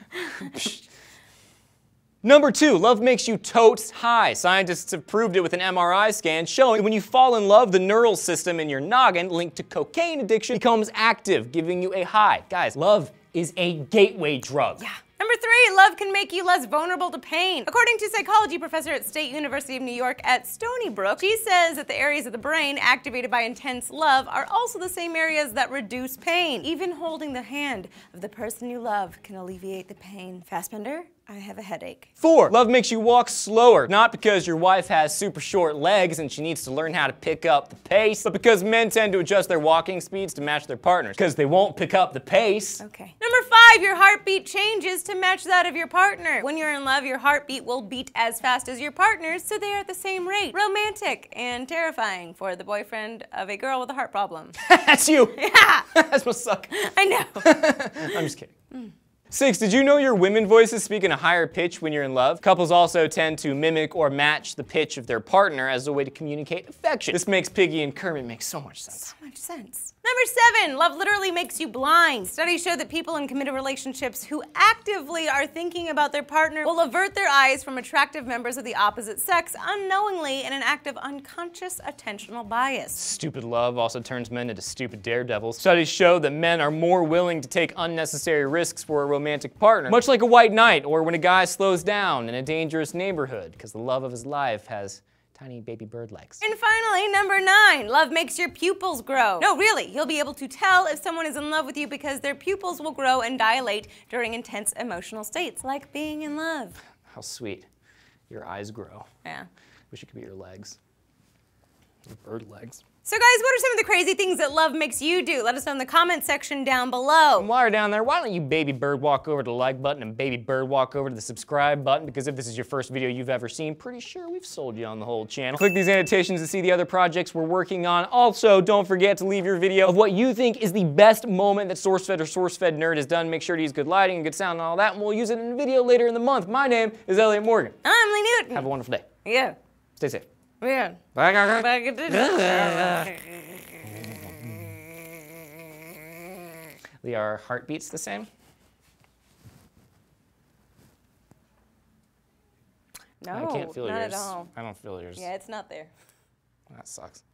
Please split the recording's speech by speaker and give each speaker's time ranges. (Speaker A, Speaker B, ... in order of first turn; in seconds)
Speaker A: 0.1-0.7, 14.8-32.1, 42.8-54.5, 55.3-55.9, 56.7-58.9, 68.9-83.0, 96.4-106.8, 113.0-117.5, 137.8-138.7, 139.2-139.6, 140.6-143.6, 153.2-154.5, 155.2-155.9
Speaker B: 0.4-0.8, 2.2-14.8, 32.2-42.8, 54.6-56.7, 57.4-58.5, 59.3-69.1, 83.0-96.4, 107.1-107.7, 108.3-109.1, 109.9-110.8, 112.0-112.8, 117.4-137.7, 138.5-139.0, 140.0-140.2, 141.1-143.1, 143.9-144.8, 147.0-148.3, 153.3-155.3, 156.7-157.2